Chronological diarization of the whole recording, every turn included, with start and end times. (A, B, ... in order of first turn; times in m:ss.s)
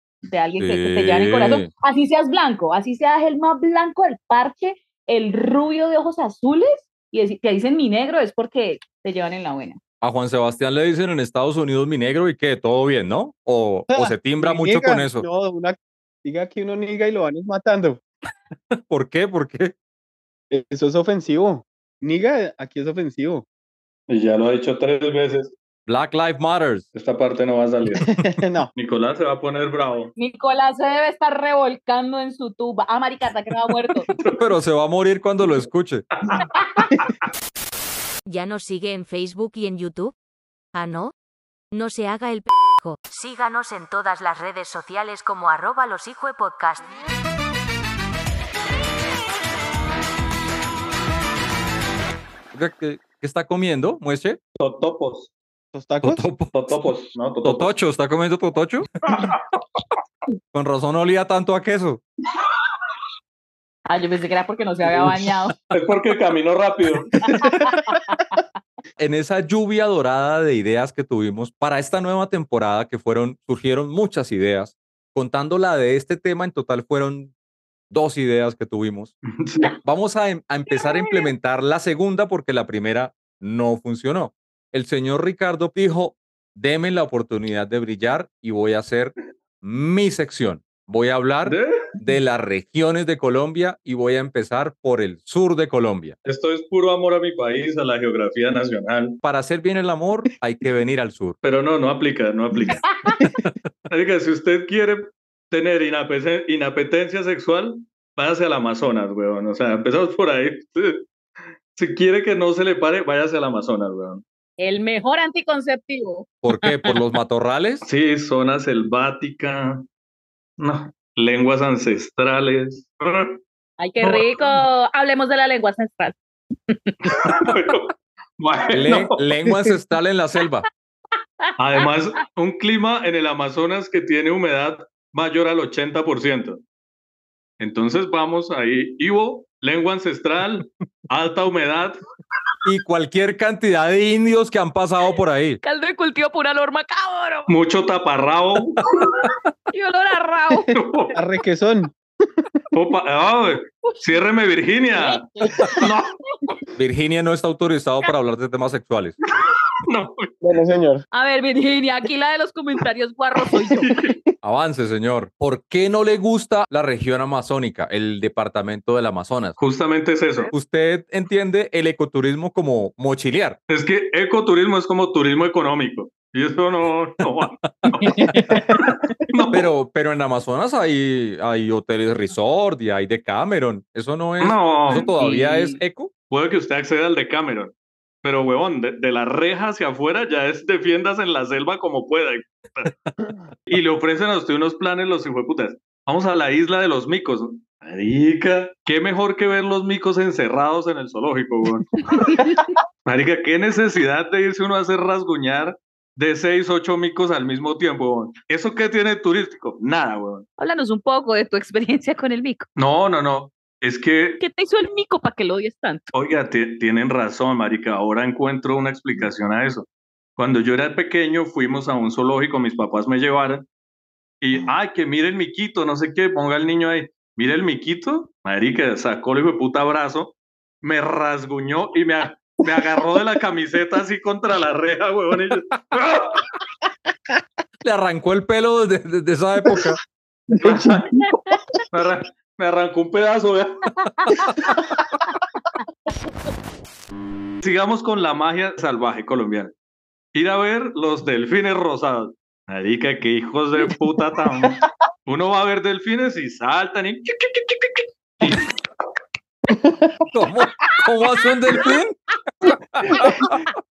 0:00.3-0:09.8 A
0:00.6-0:01.7 B
0:10.0-0:15.3 B
0:13.9-0:18.0 C
0:18.9-0:19.8 B
0:20.5-0:23.4 C
0:24.1-0:25.6 D
0:25.9-0:26.9 B
0:26.9-0:28.2 D
0:28.0-0:28.7 C
0:28.8-0:30.1 D
0:30.2-0:34.1 A
0:34.1-0:34.6 D
0:34.4-0:36.0 B
0:36.2-0:37.2 D
0:38.3-0:40.2 E
0:40.7-0:41.1 E
0:41.7-0:46.9 E
0:52.5-0:54.4 B
0:54.6-0:55.3 D
0:55.7-0:56.2 C
0:56.0-0:56.7 B
0:56.5-0:57.7 D
0:57.4-0:58.9 B
0:59.1-0:59.3 D
1:00.5-1:02.0 B
1:03.9-1:05.5 A
1:05.7-1:07.4 D
1:07.3-1:08.4 A
1:09.0-1:17.3 B
1:17.9-1:19.1 B
1:19.4-1:19.8 D
1:19.8-1:36.2 B
1:20.7-1:21.0 D
1:31.4-1:31.7 D
1:36.2-1:39.2 D
1:39.2-1:41.4 B
1:41.4-1:42.9 D
1:43.2-1:43.6 B
1:43.9-1:51.1 D
1:51.8-1:54.2 D
1:54.6-1:57.0 A
1:56.4-1:57.8 B
1:57.8-1:59.9 D
2:00.6-2:03.4 D
2:03.8-2:07.2 A
2:04.0-2:04.6 D
2:07.1-2:09.1 D
2:08.7-2:10.7 B
2:09.5-2:09.7 C
2:11.6-2:16.6 D
2:17.6-2:22.0 D
2:22.6-2:25.6 B
2:25.6-2:27.5 A
2:27.5-2:29.0 D
2:29.7-2:30.7 A
2:30.7-2:31.2 D
2:31.1-2:32.5 C
2:32.7-2:36.2 D
2:35.0-2:35.8 A
2:36.8-2:39.2 B
2:39.4-2:40.3 D
2:40.4-2:41.0 C
2:41.1-2:43.9 A
2:43.8-2:44.2 D
2:44.4-2:49.6 B
2:49.6-2:50.5 D
2:50.5-2:53.6 B
2:53.7-2:59.7 D
2:57.8-2:58.4 B
2:59.5-3:06.1 B
3:04.4-3:05.1 D
3:04.9-3:05.8 A
3:06.3-3:13.0 D
3:13.7-3:22.0 D
3:22.1-3:22.6 A
3:23.0-3:30.5 D
3:30.6-3:32.7 A
3:32.8-3:34.4 D
3:34.4-3:36.1 A
3:36.1-3:43.7 D
3:44.4-3:56.4 D
3:57.8-4:00.0 B
4:00.5-4:01.0 C
4:00.6-4:01.2 D
4:01.9-4:03.9 D
4:04.0-4:04.5 A
4:07.6-4:09.7 D
4:10.3-4:18.7 D
4:19.7-4:20.1 C
4:20.3-4:23.6 B
4:20.8-4:21.9 A
4:23.1-4:23.7 A